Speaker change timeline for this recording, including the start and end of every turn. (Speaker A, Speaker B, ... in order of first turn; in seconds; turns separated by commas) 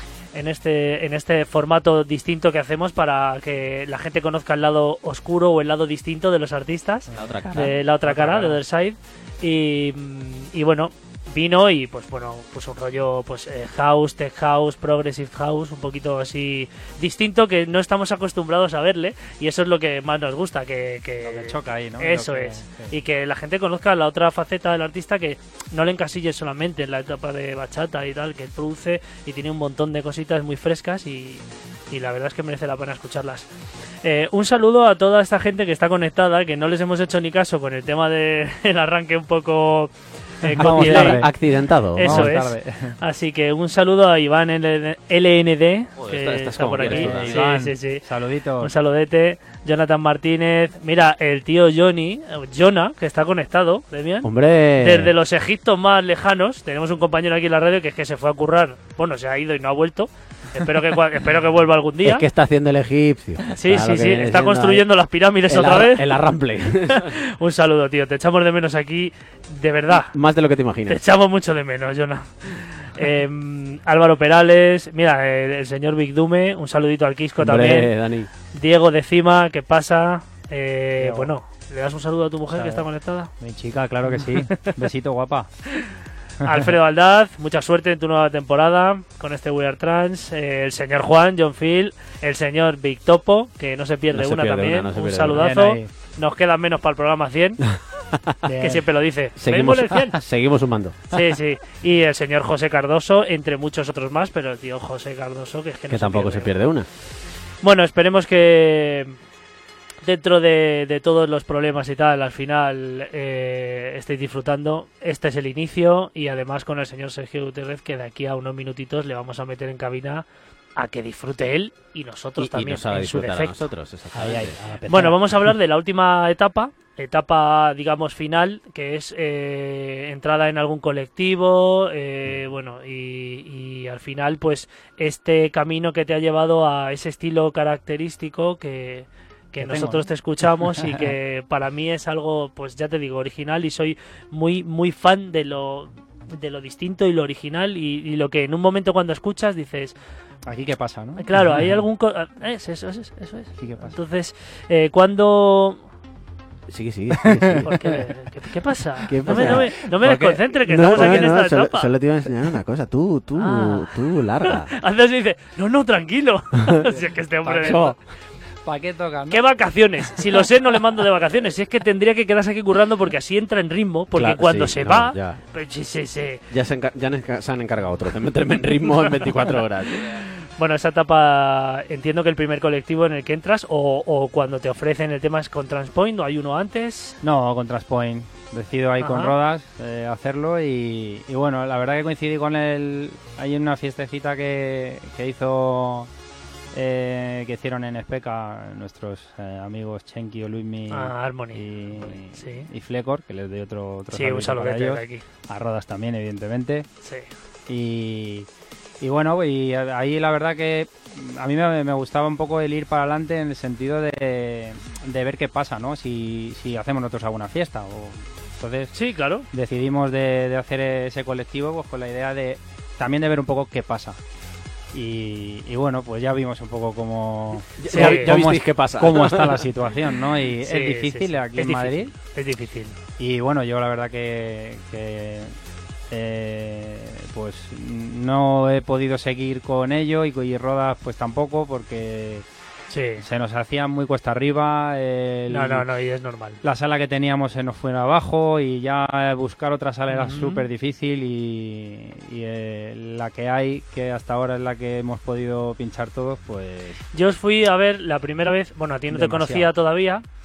Speaker A: 0.3-33.5, Speaker B: 7.1-7.4, Speaker C: 7.2-7.8, Speaker B: 8.0-8.6, Speaker B: 21.2-22.9, Speaker A: 34.0-41.3, Speaker B: 40.4-41.3, Speaker C: 40.6-42.3, Speaker A: 42.0-48.0, Speaker B: 42.0-43.0, Speaker C: 46.0-47.4, Speaker B: 46.8-48.7, Speaker A: 48.6-54.3, Speaker C: 54.2-55.1, Speaker A: 54.8-62.2, Speaker C: 62.0-64.9, Speaker A: 63.5-66.2, Speaker C: 65.5-67.1, Speaker A: 66.9-70.2, Speaker C: 70.1-71.0, Speaker A: 70.9-77.9, Speaker C: 77.4-78.3, Speaker A: 78.5-83.3, Speaker B: 81.0-81.3, Speaker B: 82.5-82.9, Speaker B: 83.4-85.5, Speaker A: 86.4-97.6, Speaker C: 94.1-95.5, Speaker B: 95.3-95.9, Speaker B: 98.4-98.8, Speaker A: 98.6-100.2, Speaker C: 99.4-101.1, Speaker A: 101.1-106.5, Speaker C: 105.9-106.9, Speaker A: 107.6-109.2, Speaker A: 110.0-123.7, Speaker C: 122.4-124.6, Speaker B: 124.2-125.2, Speaker A: 124.9-149.9, Speaker B: 139.6-140.1, Speaker B: 150.4-151.3, Speaker A: 151.2-155.8, Speaker B: 153.6-154.0, Speaker C: 156.7-157.7, Speaker B: 157.3-157.6, Speaker A: 157.7-161.9, Speaker C: 159.1-164.7, Speaker B: 159.3-160.4, Speaker B: 160.9-161.3, Speaker A: 163.4-167.9, Speaker B: 167.4-167.8, Speaker C: 167.6-167.9, Speaker B: 168.6-169.4, Speaker A: 169.3-176.4, Speaker C: 174.2-175.4, Speaker C: 176.5-180.2, Speaker A: 180.0-187.2, Speaker B: 187.2-196.1, Speaker A: 189.0-189.3, Speaker B: 196.7-206.9, Speaker A: 200.9-202.7, Speaker A: 204.1-205.2, Speaker A: 207.0-207.3, Speaker B: 207.7-208.5, Speaker B: 209.0-219.0, Speaker A: 218.9-219.5, Speaker B: 219.5-224.2, Speaker B: 224.9-232.1, Speaker C: 227.8-229.7, Speaker A: 227.9-228.3, Speaker A: 230.6-233.0, Speaker B: 233.2-235.6, Speaker B: 236.1-242.4, Speaker A: 242.9-243.2, Speaker B: 243.2-245.9, Speaker A: 245.5-246.6, Speaker B: 246.6-257.0, Speaker A: 250.1-250.6, Speaker A: 257.1-260.2, Speaker B: 259.1-259.7